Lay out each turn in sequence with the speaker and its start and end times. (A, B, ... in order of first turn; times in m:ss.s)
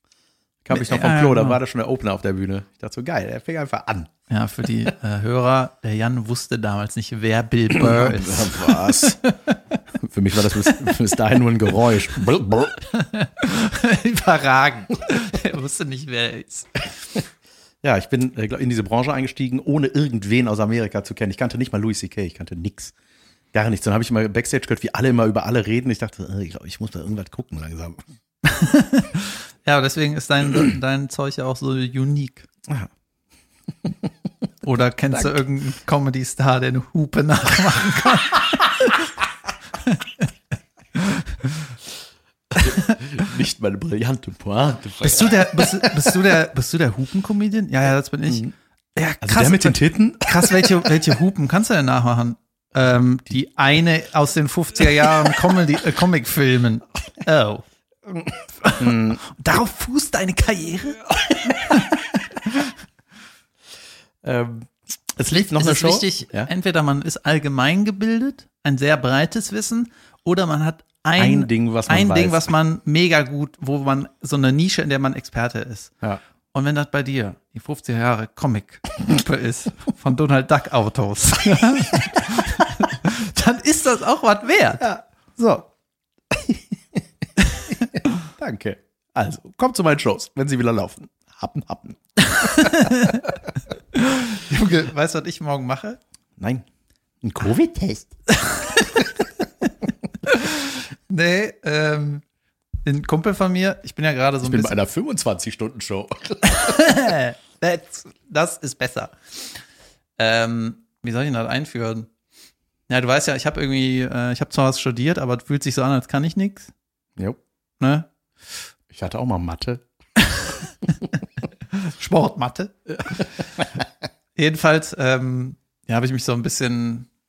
0:00.6-0:04.1 A
0:00.7-0:01.6 B
0:04.3-0:09.6 B
0:07.7-0:09.2 A
0:10.0-0:12.9 A
0:10.6-0:11.0 B
0:12.9-0:16.9 B
0:17.8-0:22.9 A
0:23.5-0:28.0 A
0:28.4-0:32.5 B
0:34.6-0:39.1 B
0:39.8-0:40.2 B
0:41.0-0:41.6 B
0:42.5-0:46.1 A
0:45.0-0:57.6 B
0:48.3-0:48.5 A
0:49.2-0:50.9 A
0:58.1-0:59.2 A
0:58.6-1:02.7 B
1:04.2-1:06.5 A
1:05.4-1:15.9 B
1:11.2-1:12.5 A
1:16.5-1:24.8 B
1:24.8-1:25.7 A
1:26.3-1:26.6 A
1:28.0-1:33.0 A
1:32.3-1:33.3 B
1:33.9-1:36.0 B
1:36.4-1:36.6 A
1:37.2-1:38.1 A
1:38.3-1:39.7 B
1:40.2-1:42.2 B
1:42.8-1:44.7 B
1:44.4-1:46.8 A
1:46.4-1:49.2 B
1:50.2-1:52.1 B
1:52.9-1:56.7 B
1:57.8-1:58.1 B
1:58.9-1:59.8 A
2:00.2-2:00.9 B
2:01.7-2:03.2 B
2:02.9-2:03.6 A
2:04.4-2:07.1 B